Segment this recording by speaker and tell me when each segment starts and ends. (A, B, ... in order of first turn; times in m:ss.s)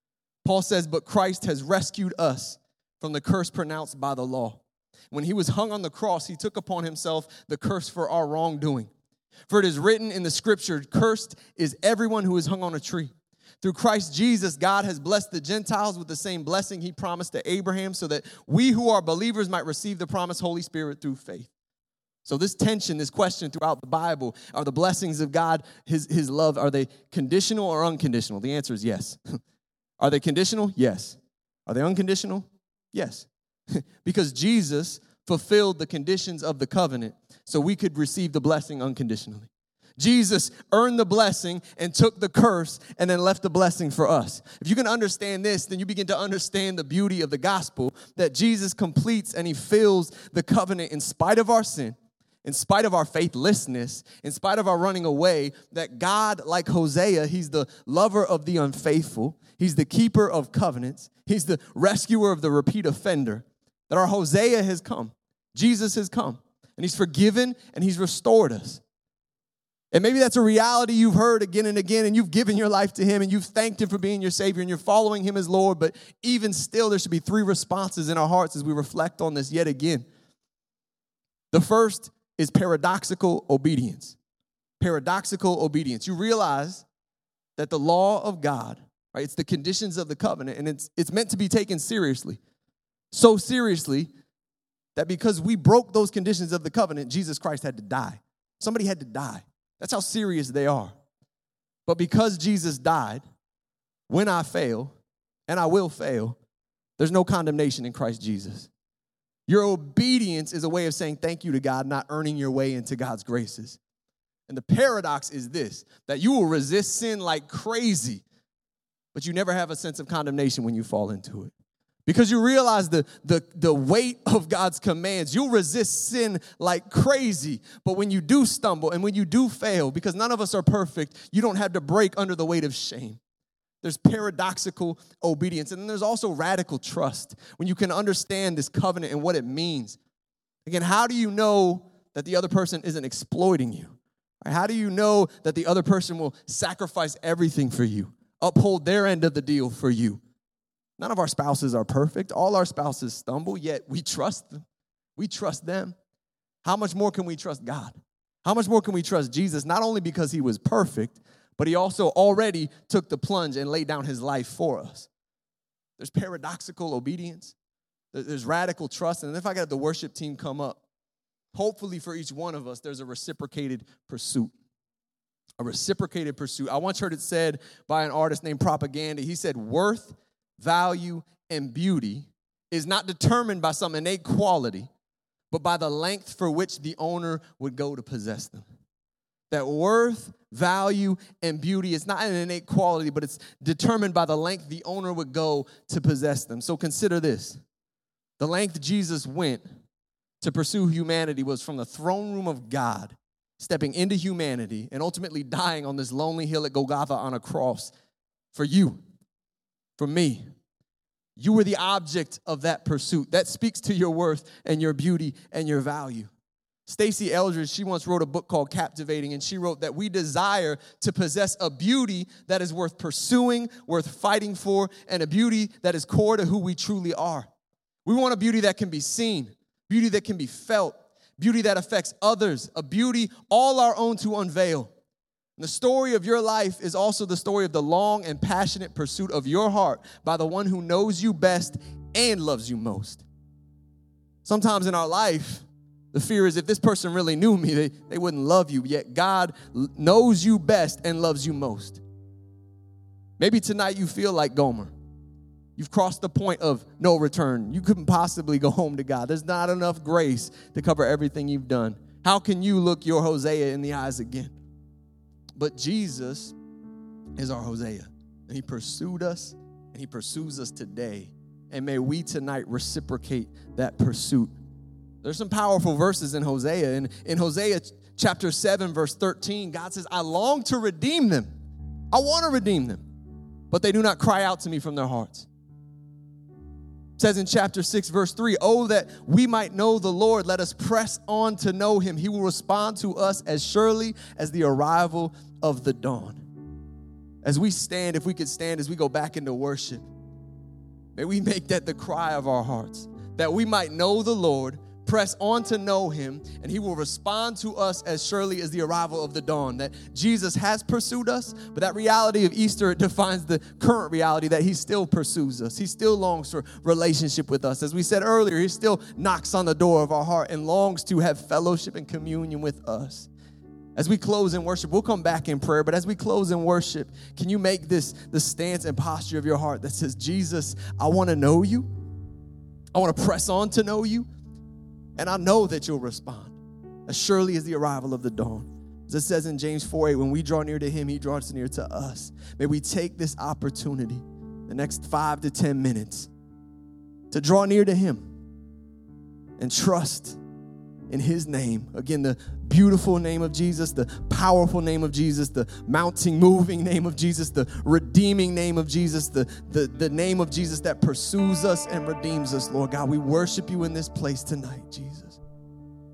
0:00.4-0:08.9 A
0:09.5-0:21.5 A
0:22.2-0:29.4 A
0:30.0-1:08.8 A
1:09.9-1:20.0 A
1:21.5-1:24.2 A
1:24.8-1:26.8 A
1:27.6-1:32.4 A
1:33.1-1:34.1 A
1:34.9-1:40.9 A
1:41.9-1:43.2 A
1:44.1-1:44.9 A
1:45.5-1:46.4 A
1:47.0-1:48.7 A
1:49.5-1:53.8 A
1:54.5-1:58.2 A
1:59.1-2:01.5 A
2:02.0-2:13.2 A
2:13.8-2:20.0 A
2:20.6-2:30.2 A
2:31.0-2:34.6 A
2:35.2-2:35.9 A
2:36.6-2:45.1 A
2:46.0-2:47.5 A
2:48.1-2:50.8 A
2:51.5-2:54.5 A
2:55.6-3:04.9 A
3:05.5-3:08.6 A
3:09.5-3:17.6 A
3:18.4-3:19.6 A
3:20.4-3:27.9 A
3:28.5-3:29.0 A
3:30.0-3:30.4 A
3:31.4-3:36.3 A
3:36.9-3:47.5 A
3:48.0-3:54.9 A
3:55.6-4:03.2 A
4:04.4-4:12.0 A
4:13.4-4:14.9 A
4:15.8-4:24.6 A
4:25.6-4:26.6 A
4:27.4-4:34.5 A
4:35.2-4:41.5 A
4:42.1-4:43.0 A
4:43.7-4:45.5 A
4:47.2-4:56.4 A
4:57.4-5:00.1 A
5:01.1-5:23.3 A
5:24.0-5:31.9 A
5:32.9-5:34.3 A
5:35.2-5:46.3 A
5:47.3-5:48.2 A
5:49.6-5:50.4 A
5:51.1-6:05.4 A